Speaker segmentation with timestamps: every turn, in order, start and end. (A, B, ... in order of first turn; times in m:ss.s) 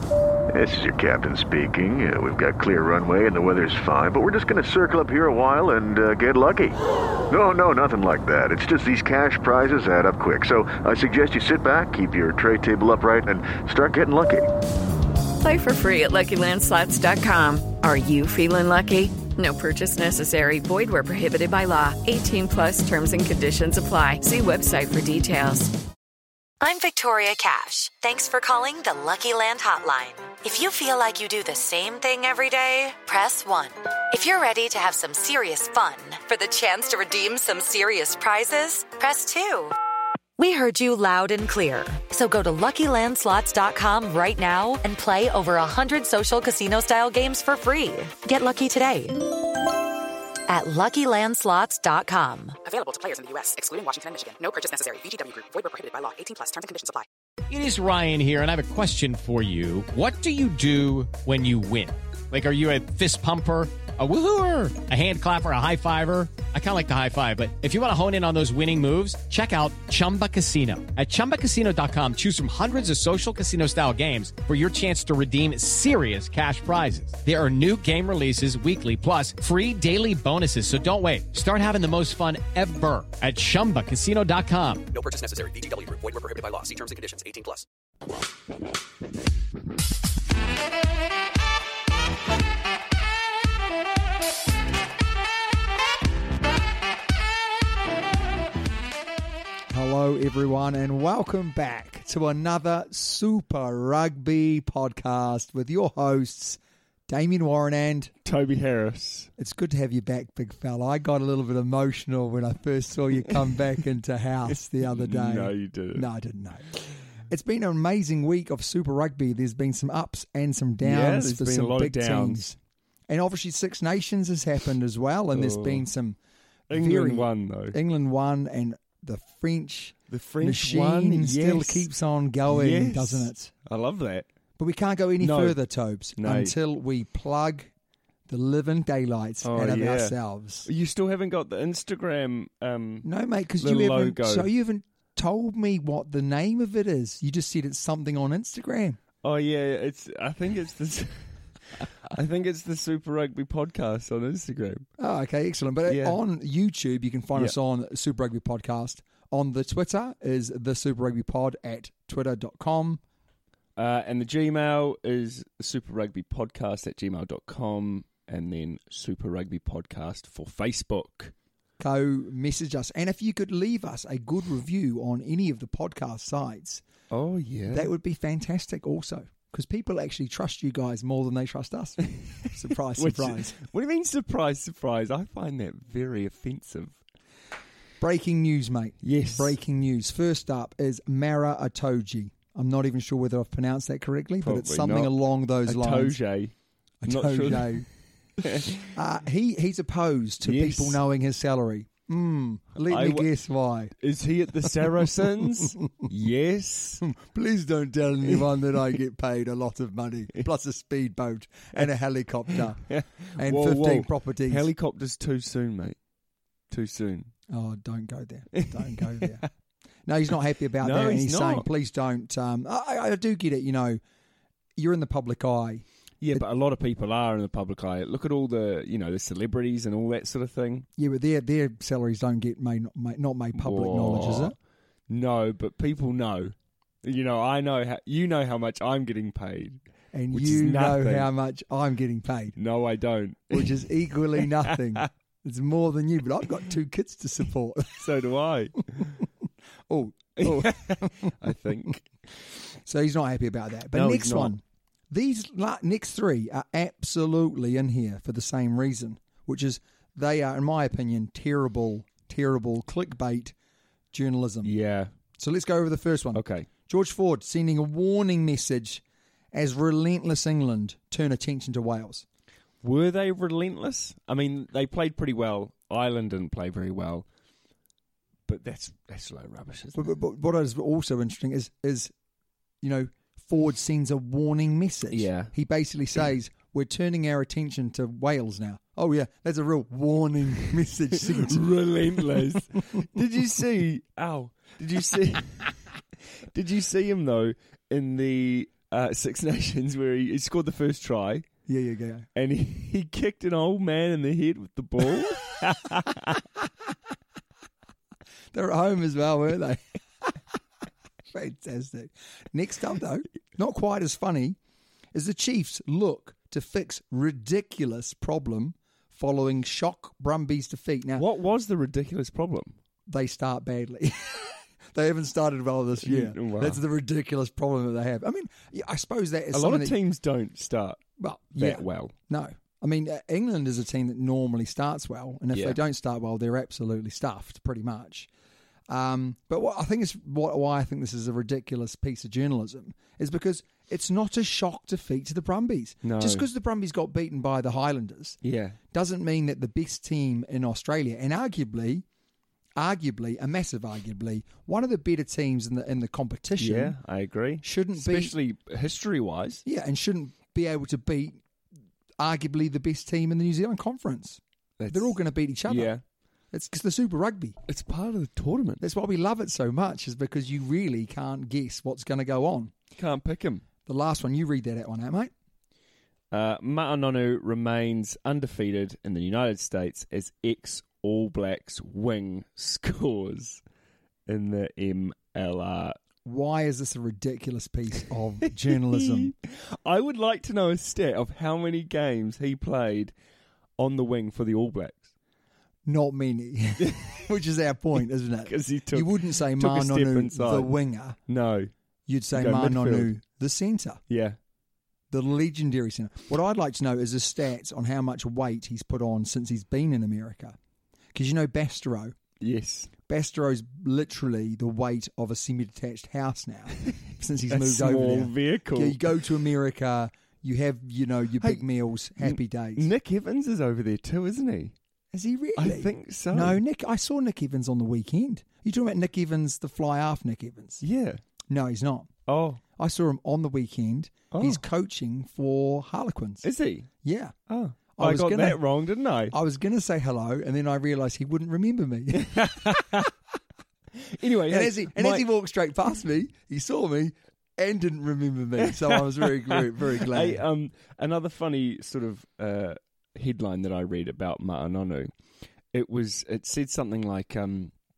0:00.5-0:06.8 A
0:07.3-0:14.5 A
0:15.4-0:25.7 B
0:26.6-0:39.8 C
0:40.4-0:49.4 C
0:50.5-0:52.6 C
0:52.6-0:57.1 D
0:57.5-1:24.8 E
1:24.9-1:27.7 D
1:39.7-1:48.1 F
1:48.2-1:49.3 G
1:49.4-2:02.6 F
1:54.8-1:56.1 G
2:00.8-2:02.5 G
2:03.1-2:06.2 F
2:05.3-2:05.9 G
2:06.7-2:07.8 G
2:06.7-2:13.5 F
2:10.1-2:11.9 G
2:12.5-2:14.3 G
2:14.6-2:17.7 F
2:15.2-2:15.6 G
2:16.2-2:16.5 G
2:18.3-2:20.7 F
2:19.4-2:23.1 G
2:23.0-2:29.0 F
2:23.6-2:24.5 G
2:29.2-2:34.9 G
2:35.0-2:43.0 F
2:35.9-2:36.2 G
2:43.8-2:51.3 G
2:51.8-2:56.8 F
2:57.1-2:57.9 G
2:57.7-3:03.6 F
3:03.0-3:07.0 G
3:08.0-3:16.2 F
3:09.0-3:09.6 G
3:14.4-3:15.1 G
3:15.6-3:16.5 G
3:17.0-3:17.9 F
3:17.0-3:17.9 G
3:18.4-3:18.9 G
3:18.8-3:23.9 F
3:20.4-3:21.0 G
3:22.9-3:23.3 G
3:24.0-3:27.1 G
3:27.0-3:34.7 F
3:32.5-3:36.0 G
3:36.7-3:37.3 G
3:37.5-3:39.5 F
3:38.6-3:39.4 G
3:40.1-3:44.0 F
3:40.8-3:41.7 G
3:44.8-3:46.4 F
3:46.2-3:50.9 G
3:51.0-3:54.6 F
3:53.6-3:54.6 G
3:55.1-4:01.3 G
4:00.1-4:02.6 F
4:02.6-4:05.1 G
4:03.5-4:08.1 F
4:08.0-4:09.2 G
4:09.9-4:11.3 F
4:10.4-4:12.1 G
4:12.5-4:23.6 F
4:13.9-4:14.5 G
4:24.1-4:24.7 F
4:24.6-4:25.1 G
4:25.4-4:32.2 F
4:26.3-4:26.7 G
4:32.8-4:37.3 G
4:38.5-4:40.1 G
4:40.0-4:42.1 F
4:42.8-4:52.6 F
4:45.1-4:45.5 G
4:51.2-4:55.7 G
4:56.5-5:01.5 G
5:01.7-5:02.3 F
5:02.4-5:06.4 G
5:08.5-5:10.3 F
5:11.3-5:14.6 F
5:15.1-5:21.2 F
5:21.2-5:22.8 G
5:23.1-5:30.0 F
5:26.0-5:26.8 G
5:29.5-5:31.0 G
5:31.2-5:38.3 F
5:31.6-5:32.1 G
5:35.5-5:35.8 G
5:38.9-5:48.4 F
5:46.0-5:46.5 G
5:48.4-5:48.8 G
5:48.9-5:52.0 F
5:52.8-5:57.0 F
5:56.6-5:59.6 G
5:57.6-5:58.4 F
5:59.6-6:01.4 F
6:02.2-6:05.9 F
6:04.8-6:06.0 G
6:06.5-6:07.6 F
6:07.7-6:08.8 G
6:08.8-6:12.7 F
6:13.0-6:13.7 G
6:13.9-6:15.3 F
6:16.3-6:23.6 G
6:24.3-6:26.0 G
6:26.2-6:29.3 F
6:28.7-6:33.1 G
6:33.8-6:35.1 G
6:35.9-6:41.2 F
6:36.8-6:37.2 G
6:38.4-6:40.7 G
6:41.3-6:41.7 G
6:42.1-6:44.0 F
6:42.3-6:43.1 G
6:44.1-6:44.4 G
6:45.1-6:50.6 F
6:51.1-6:52.2 F
6:52.4-6:52.9 G
6:53.1-7:02.9 F
6:57.5-6:59.2 G
7:02.2-7:04.8 G
7:05.1-7:10.8 F
7:05.6-7:06.6 G
7:10.8-7:11.2 G
7:11.5-7:12.1 F
7:12.3-7:12.6 G
7:12.8-7:16.5 F
7:14.3-7:14.6 G
7:16.4-7:16.9 G
7:17.0-7:17.4 F
7:17.5-7:19.4 G
7:18.0-7:18.6 F
7:19.3-7:23.0 F
7:22.1-7:23.1 G
7:24.1-7:25.3 G
7:24.5-7:30.4 F
7:28.6-7:35.1 G
7:35.7-7:37.7 G